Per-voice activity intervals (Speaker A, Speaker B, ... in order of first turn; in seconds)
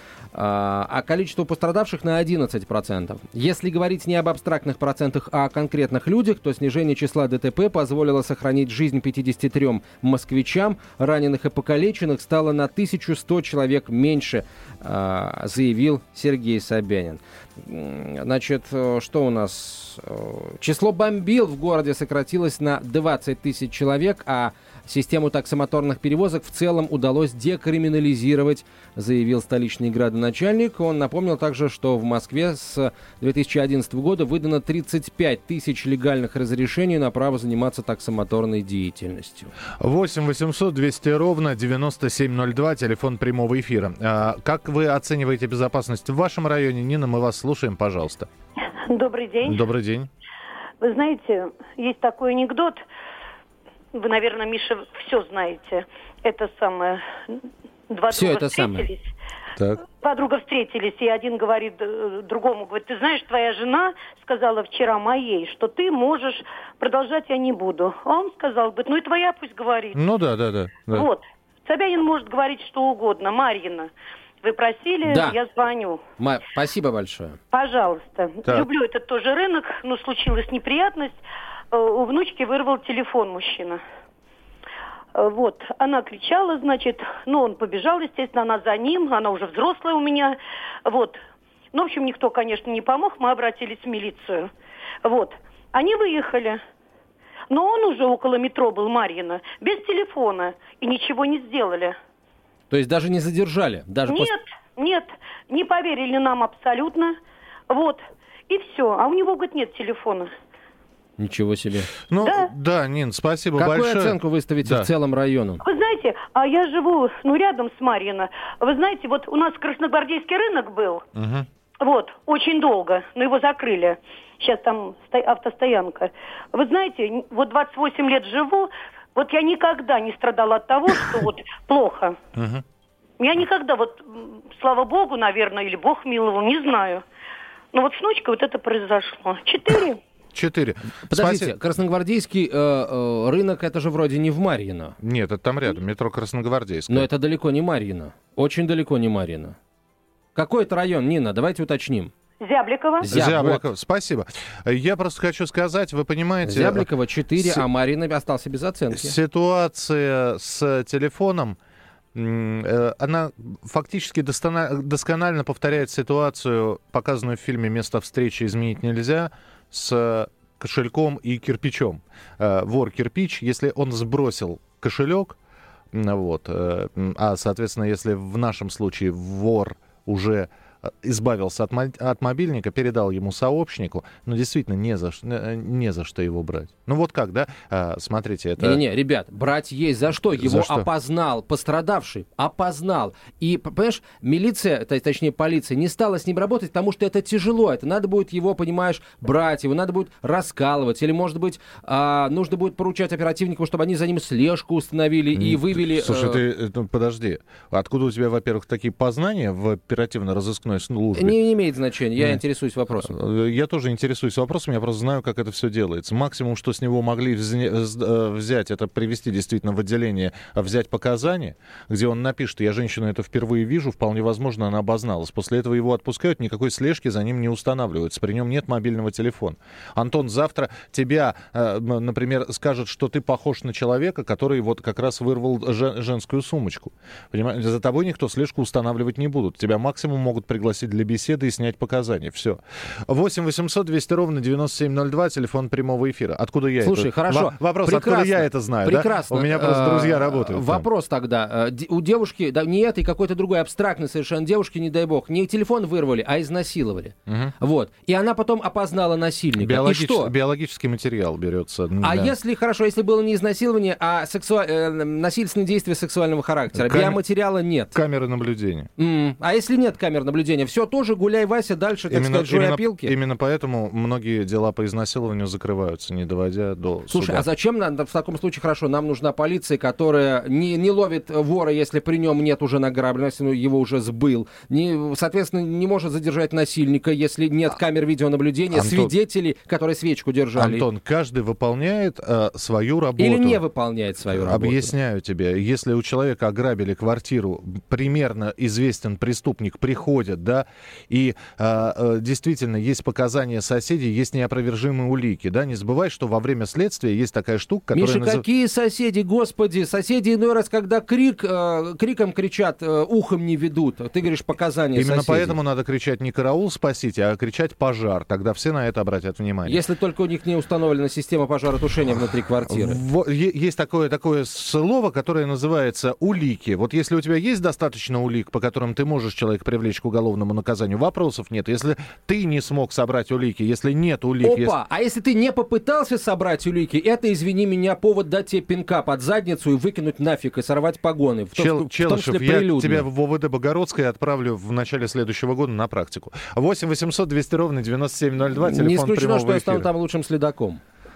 Speaker A: 0.3-39.5, 58.1-58.9, 75.0-75.4, 76.2-77.4, 102.7-104.3, 111.2-111.9, 113.6-115.6, 141.1-145.0, 146.9-149.6, 150.3-152.1, 153.0-153.6, 156.4-159.2, 188.6-206.4, 211.2-213.2, 246.8-260.3, 262.0-267.9, 269.0-273.1, 277.1-290.9, 293.2-294.9, 307.9-315.6, 319.6-323.0, 334.4-343.1, 348.6-350.8
Speaker B: 39.8-48.3, 49.4-50.1, 69.9-71.1, 112.1-114.9, 121.2-121.5, 132.4-132.6, 140.3-141.5, 145.0-147.1, 153.1-157.7, 158.9-161.6, 162.1-175.4, 175.9-188.8, 190.3-190.9, 205.3-211.4, 213.0-250.9, 257.3-257.5, 259.6-262.3, 266.7-267.2, 267.9-268.9, 272.1-277.5, 288.7-289.1, 290.6-293.6, 294.3-308.4, 314.9-319.8, 322.7-334.8, 341.6-349.9
Speaker C: 48.9-49.6, 50.8-52.8, 53.9-57.0, 57.9-59.0, 59.9-70.0, 70.9-73.9, 74.4-76.0, 77.5-81.2, 81.7-83.8, 85.2-91.2, 91.7-94.5, 95.0-96.6, 97.5-102.0, 104.1-107.2, 107.7-110.3, 112.2-112.5, 115.6-121.0, 121.8-132.2, 133.2-137.0, 137.7-140.0, 152.4-153.1